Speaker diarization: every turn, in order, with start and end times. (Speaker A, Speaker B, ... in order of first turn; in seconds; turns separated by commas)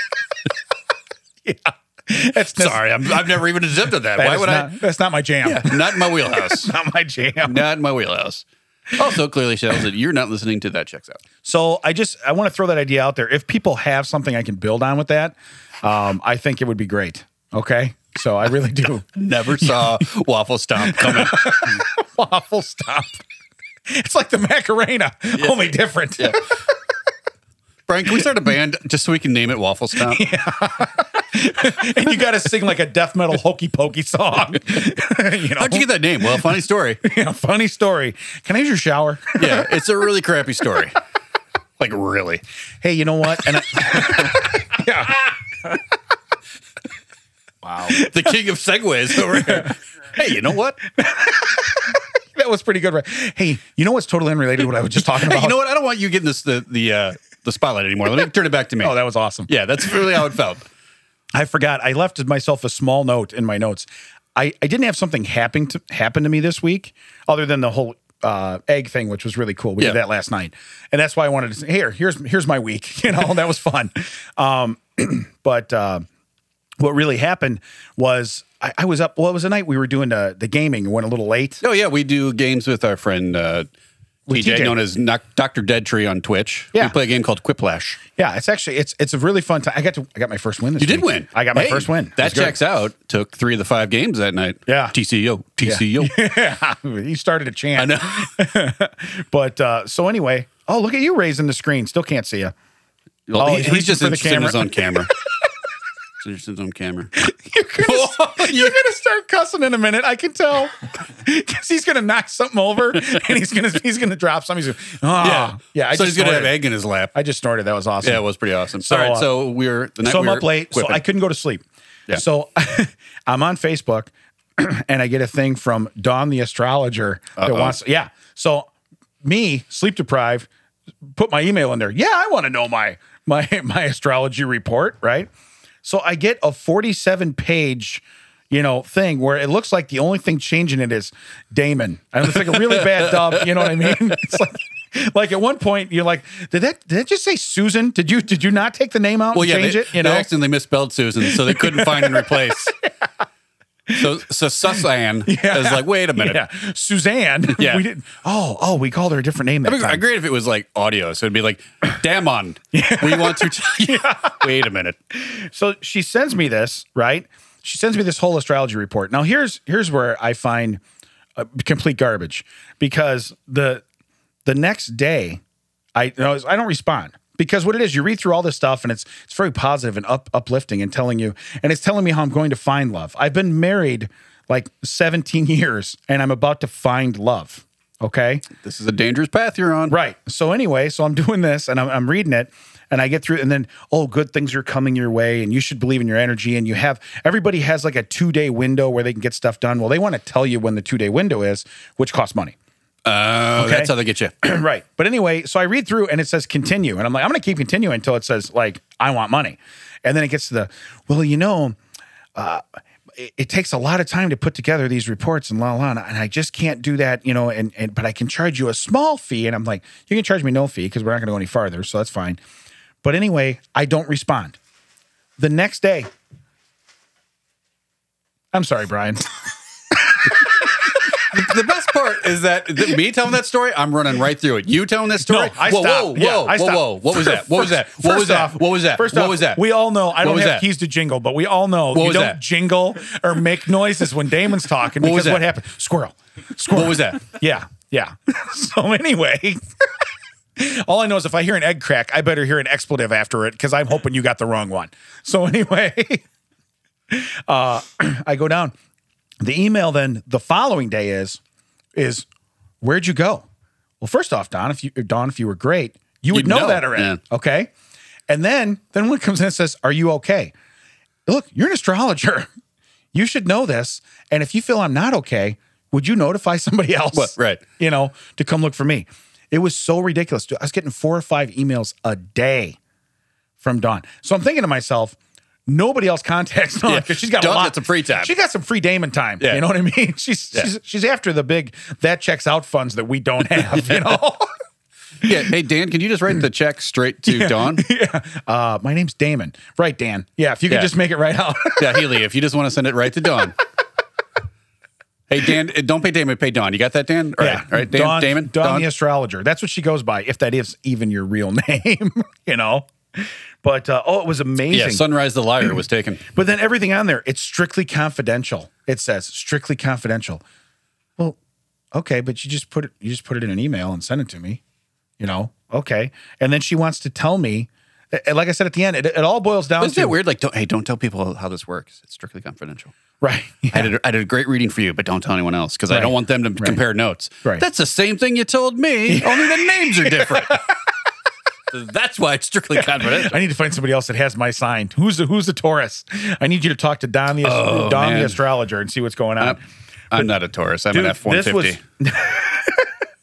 Speaker A: 1.4-2.9, Speaker B: 2.5-4.7, Speaker A: 4.1-7.6, Speaker B: 5.4-6.7, Speaker B: 7.4-11.2, Speaker A: 11.4-20.0, Speaker B: 19.1-21.8, Speaker A: 20.8-23.2, Speaker A: 23.9-26.6, Speaker B: 25.4-26.4, Speaker B: 27.9-30.2, Speaker A: 30.0-35.9, Speaker B: 35.5-37.0, Speaker A: 37.0-39.7, Speaker B: 39.4-41.0, Speaker B: 41.8-42.4, Speaker A: 42.8-45.3, Speaker B: 47.8-50.8, Speaker A: 47.9-48.3, Speaker A: 49.1-49.7, Speaker A: 50.9-55.6, Speaker B: 55.0-60.6, Speaker A: 58.8-59.5, Speaker A: 61.3-76.0, Speaker A: 76.8-81.6, Speaker B: 81.6-83.7, Speaker A: 84.3-84.8, Speaker B: 84.3-88.0, Speaker A: 88.2-92.6, Speaker B: 90.8-96.1, Speaker A: 94.7-94.9, Speaker A: 95.6-102.5, Speaker B: 97.8-98.3, Speaker B: 103.3-105.1, Speaker A: 103.4-105.0, Speaker B: 106.2-107.1, Speaker A: 107.2-116.6, Speaker B: 107.8-108.8, Speaker B: 115.2-117.1, Speaker A: 117.1-118.2, Speaker B: 118.0-121.0, Speaker A: 118.8-119.3, Speaker A: 120.0-128.7, Speaker B: 127.4-127.7, Speaker A: 129.2-130.5, Speaker A: 131.0-135.3, Speaker A: 135.8-150.3, Speaker B: 142.3-144.0, Speaker B: 149.3-152.7, Speaker A: 151.2-152.8, Speaker B: 153.9-156.4, Speaker A: 155.2-160.0, Speaker B: 157.5-157.8, Speaker B: 159.6-165.0, Speaker A: 162.7-164.4, Speaker A: 165.1-170.8, Speaker A: 171.3-173.8, Speaker A: 174.4-175.4, Speaker A: 175.9-188.4, Speaker B: 188.6-189.9, Speaker A: 189.9-202.6, Speaker B: 203.0-204.3, Speaker A: 203.5-211.8, Speaker A: 212.3-222.4, Speaker A: 223.0-224.6, Speaker A: 225.4-226.1, Speaker A: 228.5-229.3, Speaker A: 229.9-230.7, Speaker B: 231.2-240.6, Speaker A: 235.2-249.6, Speaker B: 241.9-242.4, Speaker B: 245.0-245.5, Speaker B: 246.7-247.2, Speaker A: 250.6-256.2, Speaker A: 257.1-258.7, Speaker A: 259.4-261.4, Speaker A: 261.9-262.2, Speaker A: 262.8-263.4, Speaker A: 264.0-267.7, Speaker B: 266.3-267.2, Speaker A: 268.3-270.5, Speaker A: 271.2-272.5, Speaker A: 273.1-282.8, Speaker B: 277.1-277.6, Speaker A: 283.6-294.5, Speaker B: 286.9-288.3, Speaker B: 289.4-289.6, Speaker B: 293.7-294.1, Speaker B: 295.2-297.8, Speaker A: 297.2-302.1, Speaker B: 301.8-303.6, Speaker B: 305.3-308.9, Speaker A: 307.4-315.0, Speaker B: 314.7-316.2, Speaker A: 316.2-320.4, Speaker A: 321.9-324.6, Speaker A: 325.2-330.1, Speaker B: 329.8-332.9, Speaker A: 333.2-333.9, Speaker B: 333.7-340.6, Speaker A: 335.9-336.8, Speaker A: 339.1-340.7, Speaker B: 341.7-343.4, Speaker A: 342.7-349.6, Speaker B: 347.4-348.4, Speaker B: 350.1-351.8, Speaker A: 350.9-352.9